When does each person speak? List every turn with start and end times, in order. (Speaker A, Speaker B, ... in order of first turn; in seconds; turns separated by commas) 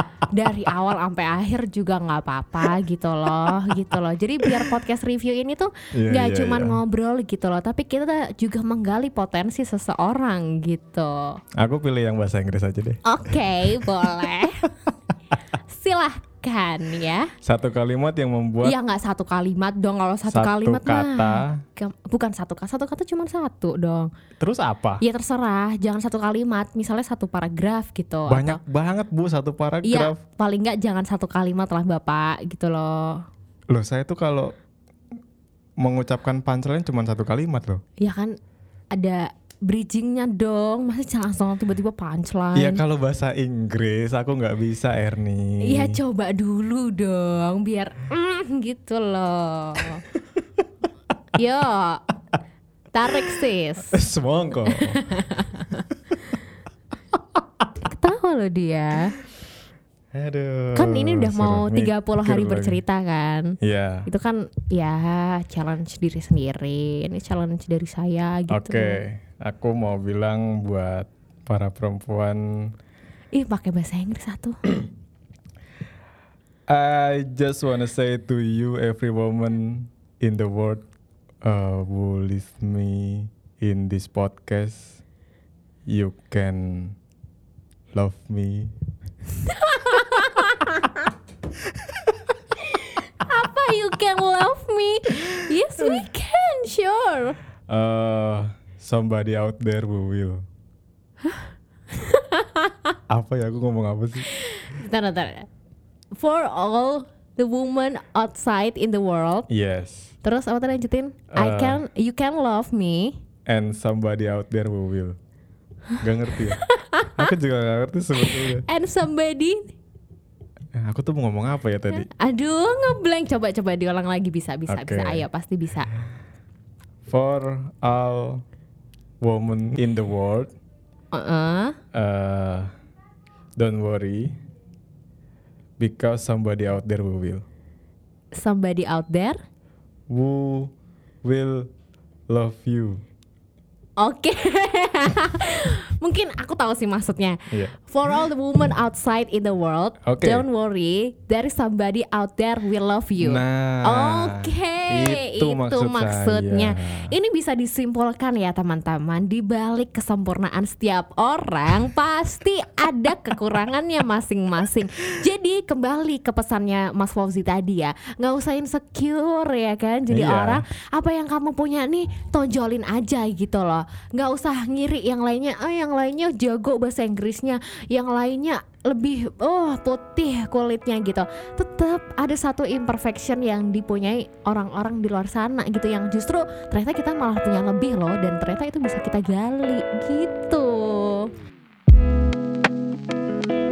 Speaker A: 0.3-11.4, Speaker B: 5.9-6.8, Speaker B: 11.6-13.0, Speaker A: 13.0-14.7, Speaker A: 15.7-17.3, Speaker B: 17.4-18.8, Speaker A: 18.6-24.1, Speaker B: 20.3-21.6, Speaker B: 24.4-25.0, Speaker A: 25.0-28.6, Speaker B: 28.3-30.2, Speaker A: 29.8-33.2, Speaker B: 33.7-34.5, Speaker B: 35.8-37.8, Speaker A: 38.0-38.4, Speaker A: 38.9-42.8, Speaker B: 42.5-46.0, Speaker A: 45.6-50.0, Speaker A: 51.4-52.0, Speaker A: 52.9-53.9, Speaker B: 53.9-55.0, Speaker A: 54.7-56.3, Speaker A: 57.8-59.2, Speaker B: 60.1-62.8, Speaker A: 60.8-63.5, Speaker B: 63.6-64.1, Speaker A: 64.1-69.0, Speaker B: 68.5-72.7, Speaker A: 73.3-74.7, Speaker B: 76.7-80.9, Speaker B: 81.4-85.0, Speaker B: 85.9-87.0, Speaker B: 87.9-88.7, Speaker A: 89.4-91.0, Speaker A: 92.7-97.4, Speaker B: 97.7-100.4, Speaker A: 101.9-102.9, Speaker B: 103.1-104.3, Speaker A: 104.3-105.5, Speaker A: 106.2-109.5, Speaker B: 109.5-110.1, Speaker A: 110.2-113.2, Speaker B: 111.3-111.8, Speaker B: 113.5-115.2, Speaker B: 116.0-116.6, Speaker A: 116.4-117.3, Speaker B: 117.2-118.7, Speaker A: 118.2-119.7, Speaker B: 120.8-122.1, Speaker A: 121.9-125.9, Speaker B: 124.7-125.2, Speaker B: 127.1-128.4, Speaker B: 129.2-130.5, Speaker A: 131.1-131.8, Speaker B: 131.9-132.7, Speaker B: 133.6-134.3, Speaker B: 135.8-137.4, Speaker A: 138.4-139.4, Speaker B: 140.1-140.7, Speaker B: 141.2-141.7, Speaker B: 142.3-143.0, Speaker A: 144.0-191.3, Speaker B: 147.5-147.8, Speaker B: 150.0-150.4, Speaker B: 153.2-157.1, Speaker B: 170.1-170.6